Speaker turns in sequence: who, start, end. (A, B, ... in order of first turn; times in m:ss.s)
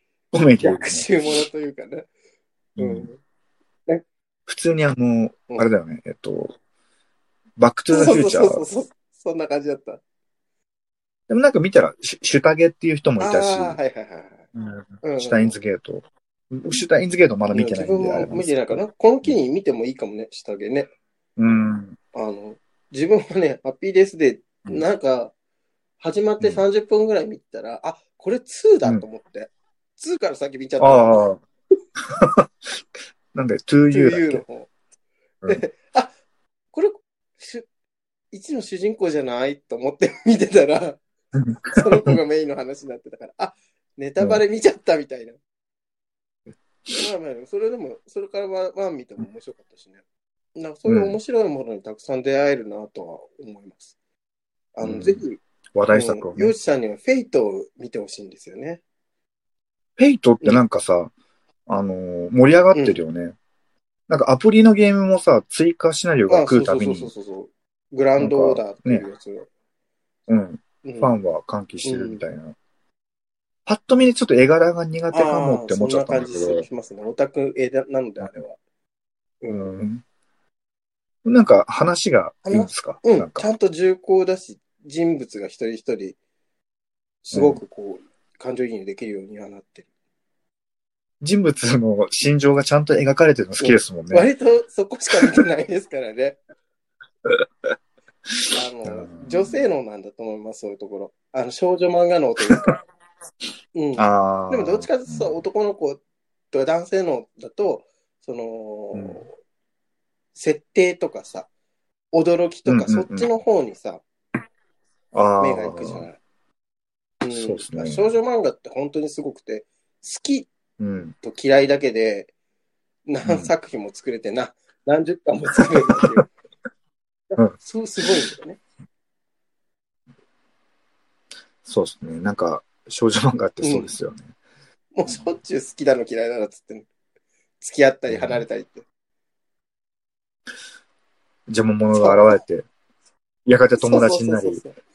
0:00.3-0:01.1 A
0:00.6-0:02.1 B
0:02.8-0:03.1 A
0:02.8-0:03.2 B
0:04.5-0:06.6 A
0:07.6-0:08.6 A
0:07.9-0:10.0 B
0:11.3-0:13.8 A
0:13.2-0:14.4 B
0:14.5-0:19.4 A
0:15.0-0:15.5 B
0:17.5-0:20.9 B
0:21.4-0:22.0 A
0:22.1-0:25.3 B
0:26.0-0:31.3 B
0:30.8-0:31.4 A
0:32.1-0:32.8 A
0:33.3-0:34.4 A
0:33.9-0:34.7 B
0:35.5-0:36.1 B
0:36.7-0:37.7 B
0:38.3-0:41.0 B
0:41.4-0:42.2 A
0:41.6-0:45.4 B
0:46.9-0:50.0 B
0:50.6-0:53.9 B
0:50.9-0:51.2 A
0:54.8-0:55.4 B
0:54.8-0:55.2 A
0:55.7-0:56.5 A
0:55.9-0:58.8 B
1:00.0-1:01.1 A
1:01.7-1:03.4 A
1:02.7-1:03.0 B
1:04.1-1:07.1 A
1:06.3-1:09.5 B
1:08.2-1:09.0 A
1:10.3-1:12.6 A
1:10.8-1:11.1 B
1:11.8-1:12.2 B
1:13.6-1:16.7 A
1:15.1-1:18.6 B
1:19.4-1:19.7 B
1:19.5-1:20.0 A
1:21.2-1:23.5 A
1:22.4-1:26.2 B
1:27.2-1:29.9 B
1:27.3-1:27.6 A
1:31.2-1:34.3 A
1:33.6-1:36.4 B
1:38.5-1:42.8 B
1:38.8-1:39.6 A
1:43.7-1:46.0 B
1:44.0-1:45.4 A
1:46.5-1:49.3 B
1:48.9-1:49.2 A
1:50.3-1:51.5 B
1:52.1-1:54.0 B
1:52.7-1:53.3 A
1:55.1-1:56.0 A
1:55.4-1:56.2 B
1:57.2-2:00.5 B
1:57.3-1:58.1 A
2:00.8-2:01.1 A
2:01.2-2:02.3 B
2:03.1-2:06.3 B
2:03.2-2:03.5 A
2:05.6-2:06.2 A
2:07.3-2:08.6 B
2:07.4-2:08.0 A
2:11.6-2:14.3 A
2:13.6-2:13.9 B
2:14.9-2:16.9 B
2:15.0-2:15.3 A
2:17.6-2:18.8 B
2:18.1-2:18.4 A
2:21.5-2:22.6 A
2:21.9-2:22.4 B
2:23.4-2:24.6 A
2:23.8-2:24.8 B